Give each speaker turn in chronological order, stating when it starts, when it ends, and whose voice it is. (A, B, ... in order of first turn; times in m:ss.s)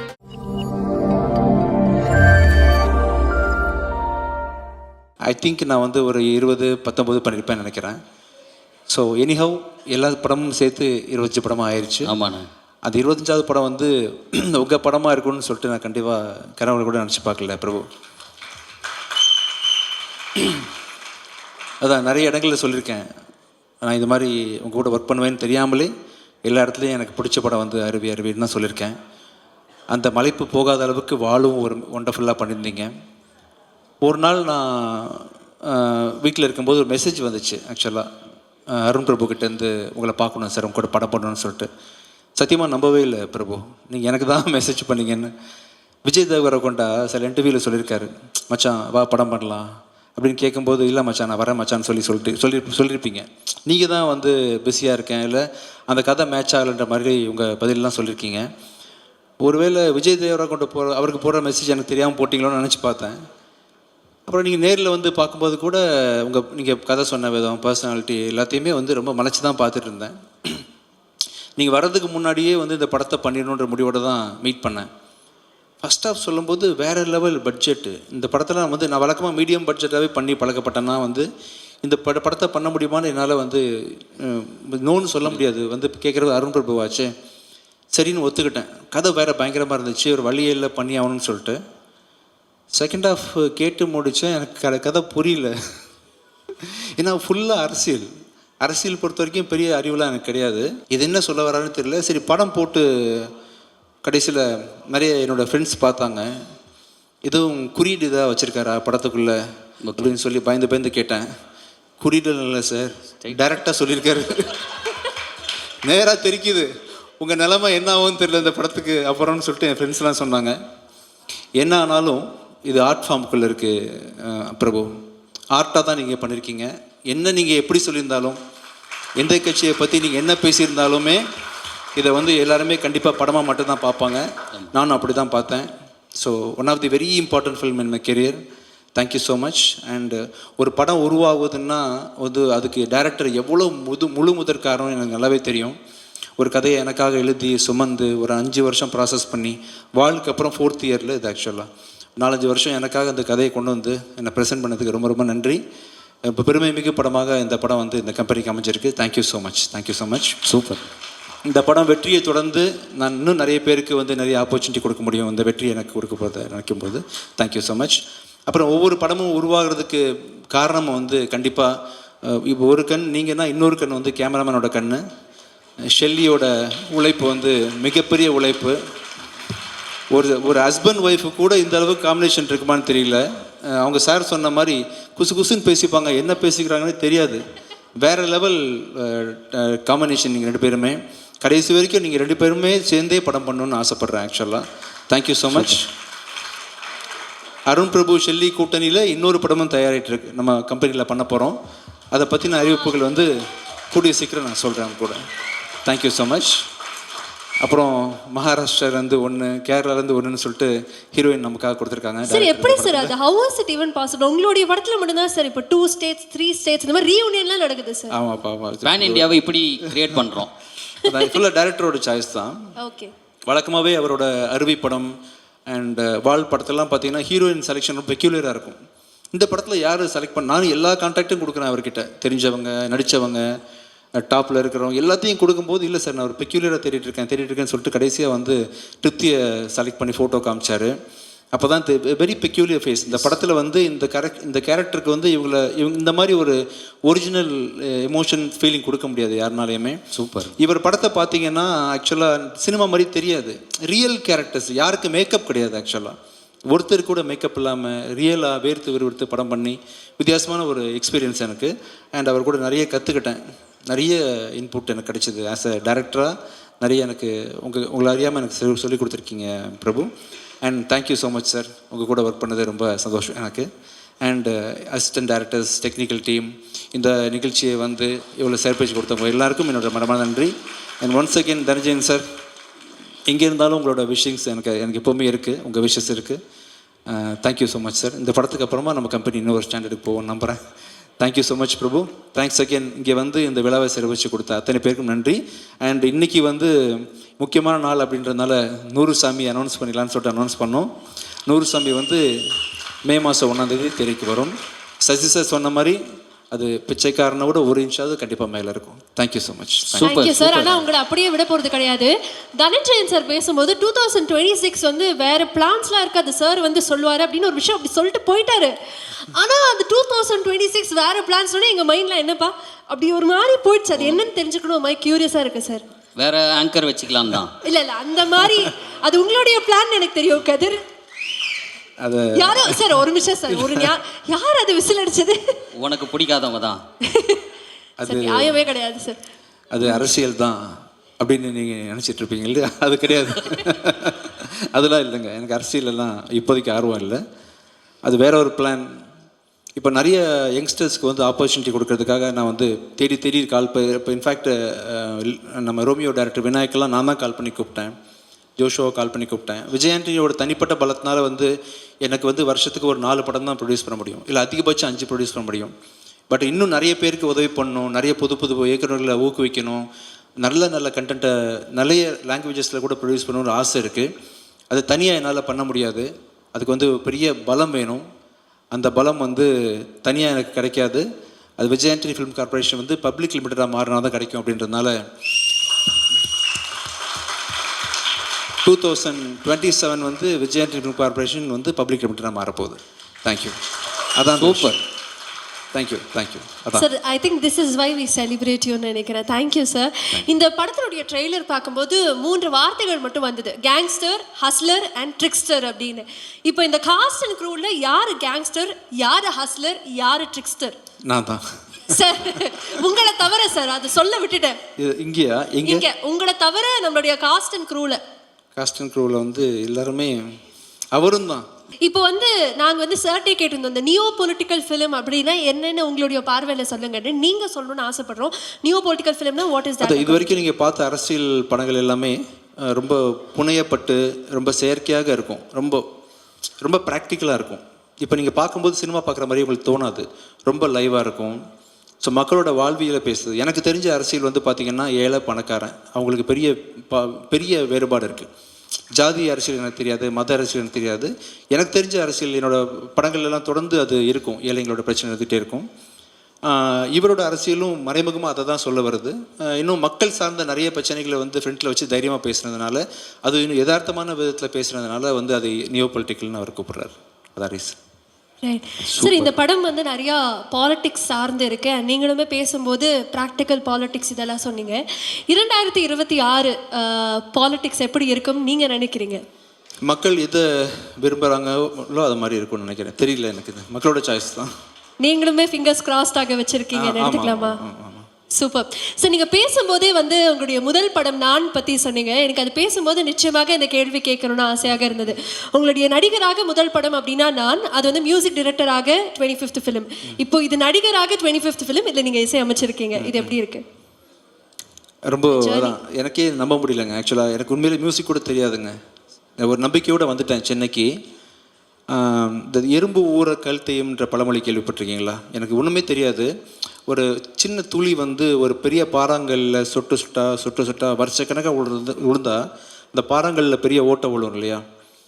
0:05.3-0:08.0 A
0:08.9-0:12.1 A
0:12.0-0:12.5 B
0:12.9-0:17.9 A
0:21.8-0:23.1 A
0:23.8-0:25.9 A
0:26.5-0:29.0 A
0:29.9-0:32.9 A
0:34.0-0:38.1 A
0:38.7-0:41.7 A
0:42.4-0:45.3 A
0:46.0-0:58.5 A
0:59.4-1:03.2 A
1:04.3-1:10.6 A
1:11.6-1:14.9 A
1:15.8-1:21.3 A
1:21.8-1:27.1 A
1:28.0-1:31.6 A
1:32.8-1:35.5 A
1:37.0-1:38.1 A
1:38.6-1:43.3 A
1:44.0-1:46.3 A
1:47.2-1:49.4 A
1:49.8-1:50.1 B
1:50.0-1:51.3 A
1:52.0-1:54.6 A
1:55.8-2:00.6 A
2:01.6-2:04.9 A
2:05.5-2:08.4 A
2:09.2-2:11.2 A
2:12.0-2:18.4 A
2:19.0-2:25.8 A
2:26.4-2:35.6 A
2:36.3-2:40.4 A
2:40.4-2:40.9 B
2:41.5-2:51.7 A
2:52.2-2:55.0 A
2:55.9-2:58.8 A
3:00.1-3:07.4 A
3:08.0-3:15.9 A
3:17.7-3:21.6 A
3:22.1-3:23.3 A
3:23.9-3:25.2 A
3:25.9-3:26.6 A
3:27.6-3:33.1 A
3:32.2-3:38.2 C
3:38.1-3:39.3 A
3:38.8-3:40.5 B
3:39.9-3:40.2 A
3:41.0-3:42.6 A
3:41.1-3:41.3 C
3:42.8-3:43.1 C
3:43.5-3:45.1 A
3:45.7-3:48.8 A
3:49.3-3:53.4 A
3:54.2-4:00.9 A
4:01.6-4:10.0 A
4:10.1-4:10.6 B
4:10.6-4:16.2 A
4:16.7-4:30.1 A
4:30.6-4:33.7 A
4:34.2-4:42.3 A
4:43.3-4:46.4 A
4:47.1-4:50.6 A
4:51.2-5:00.9 A
5:01.5-5:02.2 A
5:03.1-5:06.0 A
5:06.5-5:10.2 A
5:09.9-5:10.8 B
5:10.0-5:25.8 C
5:26.2-5:27.6 B
5:27.6-5:30.8 C
5:32.0-5:33.0 A
5:32.4-5:35.6 C
5:33.5-5:33.9 A
5:35.8-5:36.8 B
5:37.0-5:37.4 C
5:38.0-5:38.6 A
5:38.0-5:39.2 C
5:39.7-5:47.2 A
5:48.1-5:48.9 A
5:49.8-5:57.9 A
5:58.6-6:01.5 A
6:02.0-6:05.7 A
6:06.3-6:09.8 A
6:10.4-6:14.1 A
6:14.7-6:18.0 A
6:18.7-6:21.1 A
6:21.6-6:25.0 A
6:28.6-6:33.6 A
6:34.2-6:34.8 A
6:34.4-6:34.8 B
6:35.7-6:36.9 A
6:36.7-6:50.8 C
6:51.1-6:51.4 A
6:51.9-6:54.6 C
6:54.8-6:55.9 A
6:55.6-6:58.0 C
6:58.6-7:00.3 A
7:00.9-7:01.4 A
7:01.8-7:10.4 C
7:09.8-7:15.8 A
7:16.6-7:21.4 A
7:22.0-7:28.3 A
7:29.0-7:35.7 A
7:36.5-7:47.8 A
7:48.4-7:59.2 C
7:48.9-7:49.3 B
7:59.9-8:04.5 A
8:05.0-8:07.6 C
8:06.7-8:08.1 A
8:08.4-8:23.6 C
8:23.0-8:23.3 A
8:25.1-8:28.8 A
8:25.3-8:25.8 C
8:29.4-8:30.9 A
8:31.9-8:36.3 A
8:36.9-8:42.4 A
8:42.9-8:44.6 A